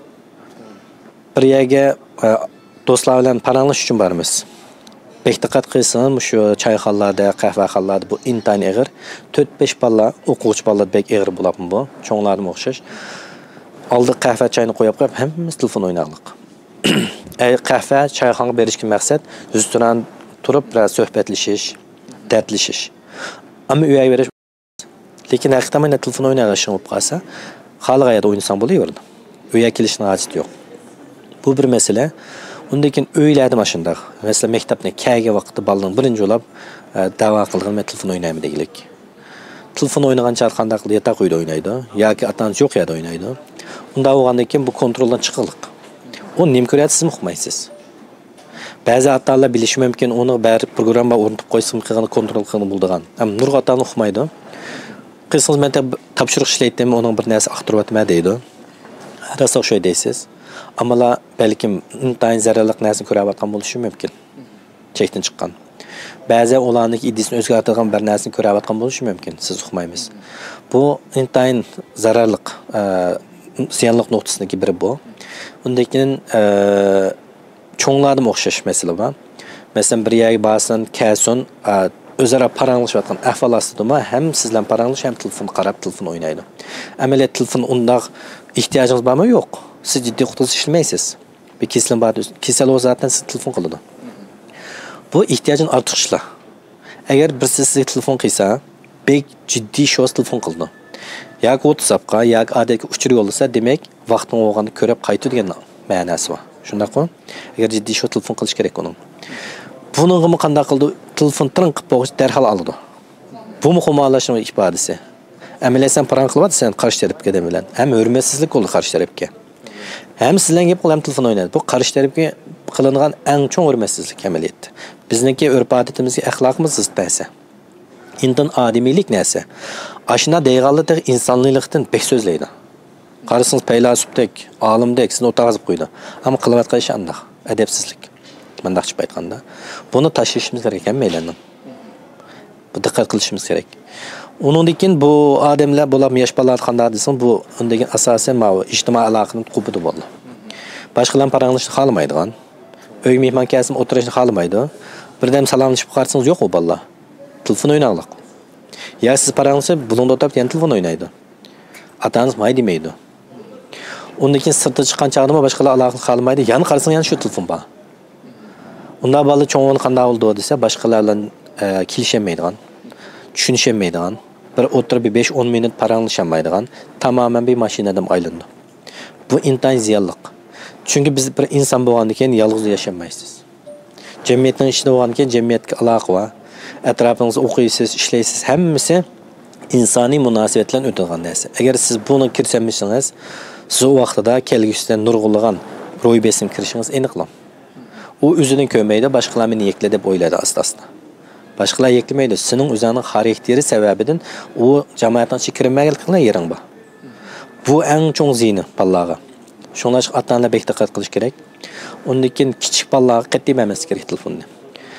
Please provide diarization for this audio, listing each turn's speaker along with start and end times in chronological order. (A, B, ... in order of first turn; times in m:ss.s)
0:01.4-0:04.4 A
0:05.2-0:12.8 A
0:13.9-0:21.8 A
0:22.3-0:22.9 A
0:23.7-0:24.3 A
0:25.3-0:27.2 A
0:27.8-0:29.0 A
0:29.5-0:30.5 A
0:31.4-0:32.1 A
0:32.7-0:38.9 A
0:39.8-0:43.4 A
0:44.0-0:45.7 A
0:46.4-0:47.7 A
0:48.8-0:54.3 A
0:55.3-0:58.4 A
0:59.3-1:00.3 A
1:00.8-1:04.1 A
1:05.0-1:05.6 A
1:06.3-1:10.1 A
1:10.7-1:15.0 A
1:15.6-1:17.2 A
1:17.8-1:19.2 A
1:19.8-1:26.5 A
1:27.0-1:33.8 A
1:35.1-1:36.2 A
1:37.1-1:40.7 A
1:41.4-1:49.0 A
1:49.9-1:52.8 A
1:53.6-1:55.0 A
1:55.6-1:59.3 A
2:00.2-2:07.3 A
2:08.2-2:09.5 A
2:10.1-2:12.5 A
2:13.3-2:21.4 A
2:22.7-2:23.7 A
2:24.4-2:30.1 A
2:31.0-2:32.3 A
2:33.0-2:36.8 A
2:37.4-2:38.2 A
2:39.0-2:41.1 A
2:42.0-2:43.0 A
2:44.2-2:47.7 A
2:49.0-2:52.6 A
2:53.3-2:58.5 A
2:59.3-3:00.3 A
3:00.8-3:03.4 A
3:04.2-3:06.3 A
3:06.8-3:09.0 A
3:09.7-3:13.1 A
3:13.7-3:17.3 A
3:18.2-3:20.9 A
3:21.6-3:26.6 A
3:27.6-3:29.2 A
3:29.8-3:31.4 A
3:32.1-3:34.5 A